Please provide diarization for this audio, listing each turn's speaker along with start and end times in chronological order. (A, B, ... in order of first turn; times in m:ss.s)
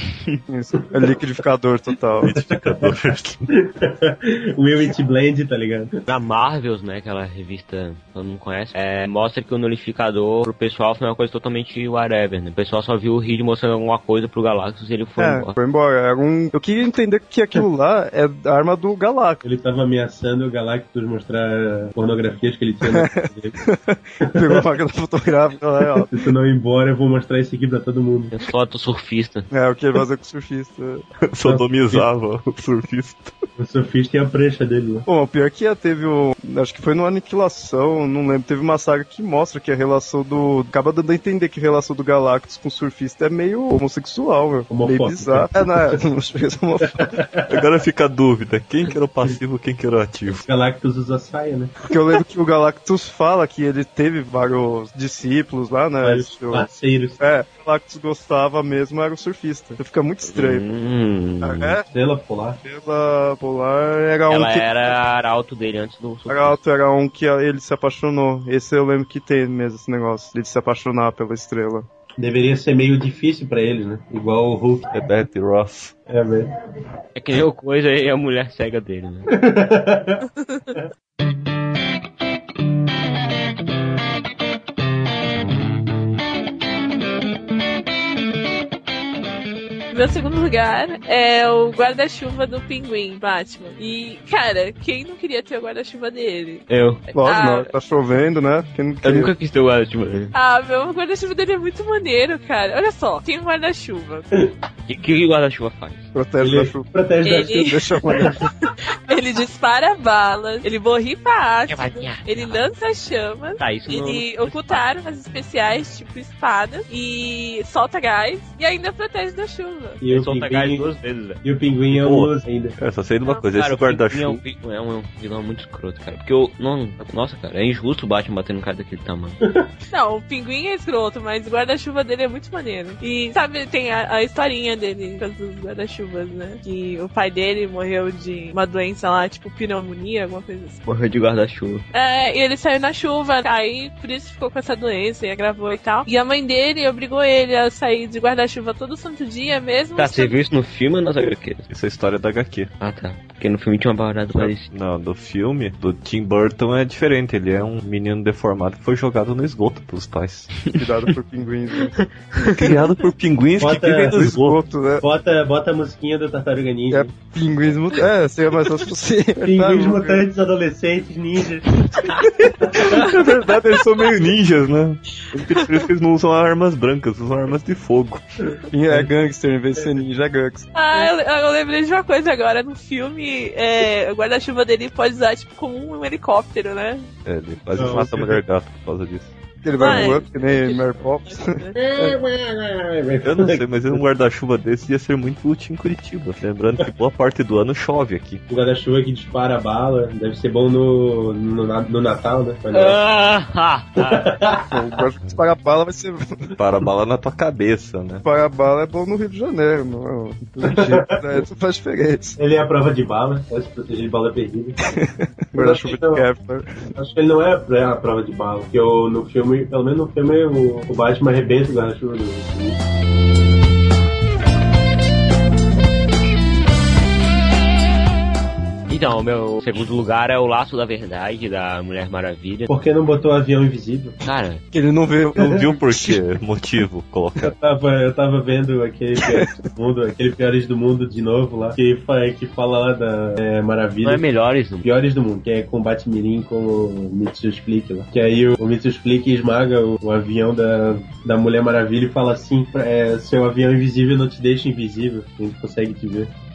0:00.5-0:02.3 A
0:00.8-0:01.1 B
0:02.2-0:03.5 C
0:02.3-0:02.9 B
0:03.5-0:06.0 B
0:06.1-0:15.5 D
0:15.2-0:19.4 A
0:19.4-0:23.6 B
0:22.9-0:26.1 A
0:24.2-0:24.7 B
0:26.0-0:28.4 B
0:28.3-0:29.5 D
0:29.5-0:31.0 A
0:31.2-0:33.3 C
0:31.4-0:32.0 B
0:33.6-0:35.1 B
0:35.1-0:47.1 A
0:44.7-0:46.0 B
0:46.9-0:47.5 B
0:47.5-0:50.4 C
0:50.4-0:51.7 B
0:51.9-0:56.7 A
0:56.0-0:57.2 B
0:57.2-1:00.6 A
1:00.2-1:01.8 D
1:01.4-1:01.8 A
1:01.9-1:02.6 B
1:02.6-1:04.7 A
1:04.3-1:06.6 D
1:06.3-1:11.9 A
1:12.2-1:14.9 B
1:14.9-1:15.9 C
1:16.1-1:16.5 B
1:17.1-1:19.3 D
1:19.3-1:20.2 B
1:29.9-1:36.6 E
1:36.7-1:37.1 D
1:37.1-1:39.3 A
1:37.2-1:37.7 E
1:39.0-1:40.3 D
1:40.3-1:44.3 E
1:44.9-1:46.1 D
1:46.1-1:46.9 A
1:46.4-1:48.4 B
1:47.2-1:47.8 E
1:47.7-1:48.4 A
1:48.6-2:00.0 E
1:51.7-1:52.6 D
1:53.6-1:54.8 D
2:00.0-2:00.9 B
2:00.1-2:01.4 D
2:01.4-2:02.8 B
2:01.9-2:04.4 C
2:03.5-2:09.4 D
2:09.4-2:09.7 B
2:09.9-2:20.8 E
2:20.8-2:21.8 D
2:21.9-2:30.4 E
2:30.0-2:31.6 D
2:31.7-2:32.7 C
2:32.8-2:34.7 D
2:34.3-2:40.5 C
2:40.7-2:41.9 A
2:41.8-2:42.5 D
2:42.6-2:44.6 C
2:43.6-2:44.3 B
2:44.1-2:45.0 A
2:45.0-2:47.2 B
2:46.9-2:50.2 A
2:49.4-2:53.1 B
2:52.7-2:58.2 C
2:58.5-2:59.1 B
2:58.7-3:00.8 A
3:00.7-3:07.0 E
3:07.2-3:09.3 C
3:07.7-3:08.4 B
3:09.6-3:12.2 A
3:09.8-3:11.8 E
3:11.8-3:14.0 B
3:13.2-3:18.4 C
3:18.5-3:23.0 B
3:22.7-3:24.3 D
3:24.0-3:24.8 B
3:24.7-3:26.5 A
3:26.6-3:28.2 C
3:28.2-3:32.4 A
3:30.6-3:31.4 B
3:32.4-3:34.8 B
3:34.8-3:36.7 A
3:35.5-3:36.3 B
3:37.0-3:42.8 B
3:48.9-3:52.7 D
3:52.7-3:54.2 B
3:54.2-3:54.6 D
3:54.7-3:56.1 A
3:55.4-3:57.5 C
3:57.4-4:04.2 B
3:59.2-3:59.5 A
4:04.0-4:04.9 D
4:04.8-4:16.3 B